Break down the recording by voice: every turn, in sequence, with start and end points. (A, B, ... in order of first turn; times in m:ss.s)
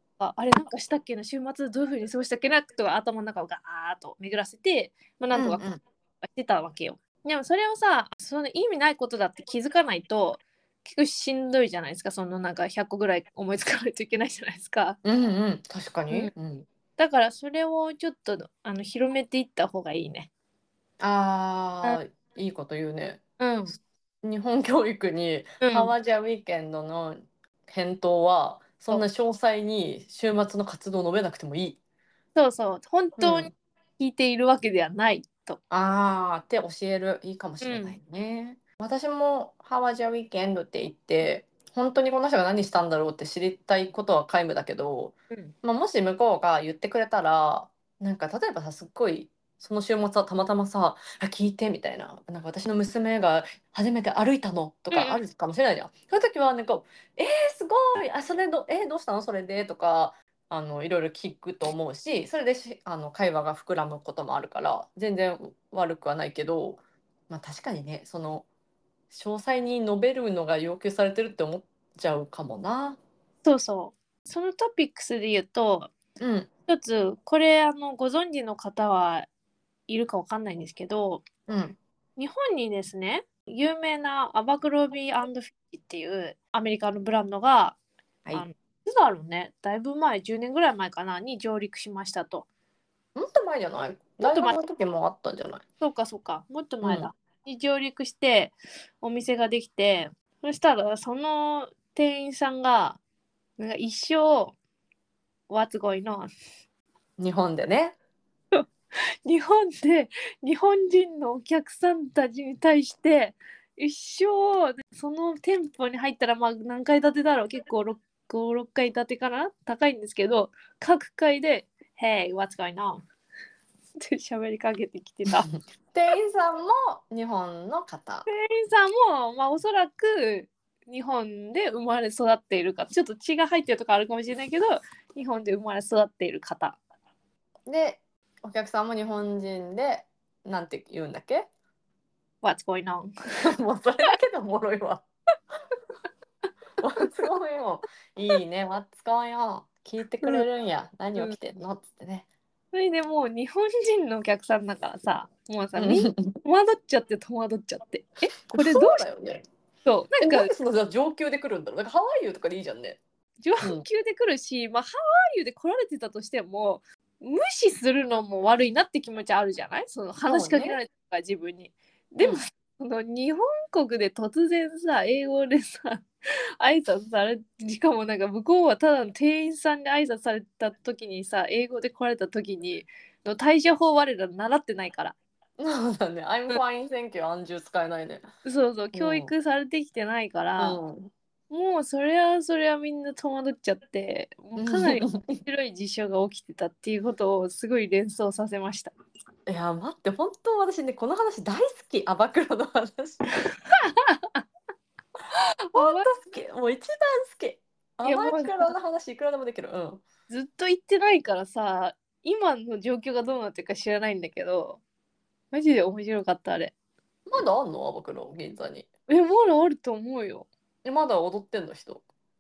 0:00.2-0:15.0 A
0:05.3-0:05.8 B
0:15.0-0:16.7 B
0:17.0-0:20.3 A
0:21.0-0:23.7 B
0:23.4-0:23.8 A
0:24.2-0:31.8 B
0:25.6-0:25.9 A
0:32.4-0:35.6 A
0:33.2-0:33.5 B
0:35.7-1:08.5 B
0:37.6-0:38.0 A
0:54.9-0:55.2 A
1:09.1-1:13.0 B
1:13.4-1:15.9 A
1:16.2-1:16.5 B
1:16.7-1:19.3 A
1:19.9-1:21.3 A
1:21.5-1:21.8 B
1:22.2-1:27.8 A
1:28.3-1:32.5 A
1:33.2-1:35.6 B
1:34.2-1:34.6 A
1:35.8-1:43.0 A
1:36.8-1:37.1 B
1:43.6-1:44.6 A
1:45.5-1:46.3 A
1:47.2-1:48.0 B
1:49.3-2:03.0 A
2:04.0-2:05.5 A
2:05.5-2:08.3 B
2:08.3-2:16.8 A
2:17.7-2:21.5 B
2:22.4-2:23.1 A
2:23.4-2:25.0 B
2:26.8-2:32.3 B
2:32.7-2:39.0 A
2:35.8-2:36.4 B
2:38.5-2:39.4 B
2:39.8-2:40.5 A
2:40.2-2:43.0 B
2:43.4-2:56.1 A
2:50.3-2:50.8 B
2:56.6-3:05.2 A
3:05.6-3:08.2 B
3:08.4-3:10.8 A
3:08.9-3:09.3 B
3:10.6-3:11.1 B
3:11.5-3:18.9 A
3:14.6-3:15.4 B
3:19.5-3:23.3 B
3:23.5-3:24.5 A
3:25.4-3:26.1 A
3:25.8-3:30.0 B
3:28.0-3:28.8 A
3:30.3-3:34.8 A
3:35.5-3:36.7 A
3:37.3-3:38.9 B
3:39.1-3:40.5 A
3:40.8-3:42.0 B